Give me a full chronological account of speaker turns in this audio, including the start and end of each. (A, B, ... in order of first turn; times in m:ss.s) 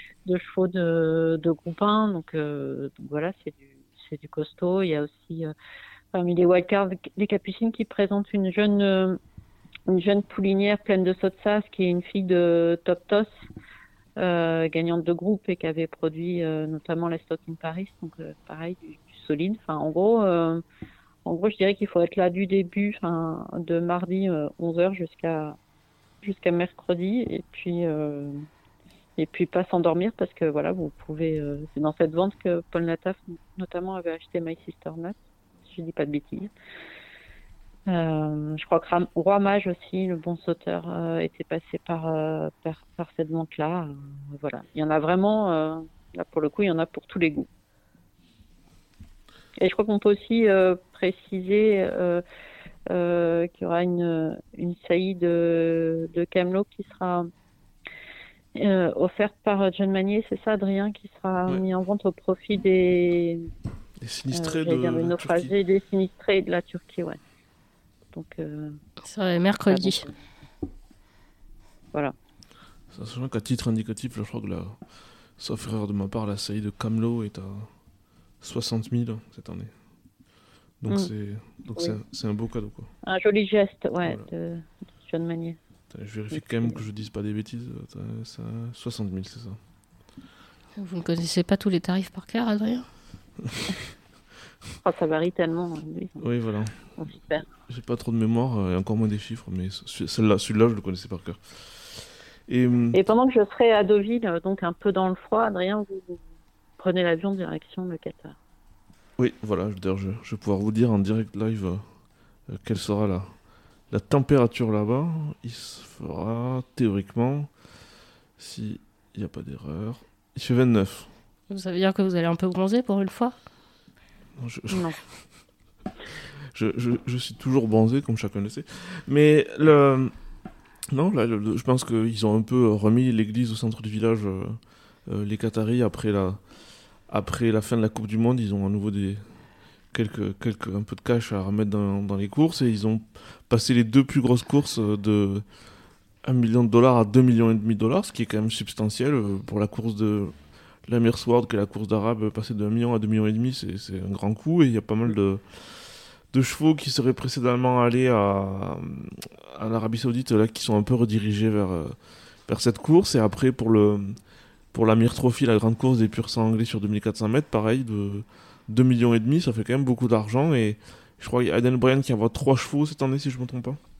0:00.2-0:05.5 A
0:06.1-0:09.2 A
0:09.9-0:13.3 A
0:14.2-0:20.6 A
0:21.2-0:25.6 A
0:26.2-0:28.4 A
0:29.2-0:36.5 A
0:37.9-0:47.5 A
0:49.6-0:52.2 A
0:52.9-0:57.3 A
0:58.5-1:03.5 A
1:04.0-1:05.5 B
1:04.3-1:07.2 A
1:08.1-1:08.8 A
1:09.0-1:10.0 C
1:09.7-1:10.2 A
1:12.9-1:14.8 B
1:15.4-1:17.7 B
1:18.4-1:19.7 B
1:20.8-1:22.9 B
1:23.0-1:25.6 A
1:25.9-1:29.6 B
1:30.8-1:32.8 C
1:34.8-1:36.3 A
1:36.2-1:36.8 B
1:37.0-1:37.4 A
1:37.7-1:41.9 B
1:42.5-1:43.0 B
1:42.9-1:46.2 A
1:46.8-1:48.4 A
1:49.2-1:51.8 B
1:52.5-1:53.3 B
1:53.9-1:57.5 B
1:58.4-2:01.1 B
2:01.5-2:03.4 C
2:04.4-2:04.9 B
2:04.7-2:05.0 A
2:06.5-2:10.1 B
2:10.9-2:16.4 B
2:17.1-2:19.2 B
2:19.9-2:25.4 B
2:26.2-2:30.3 B
2:30.8-2:42.0 B
2:42.5-2:44.2 B
2:44.7-2:53.8 B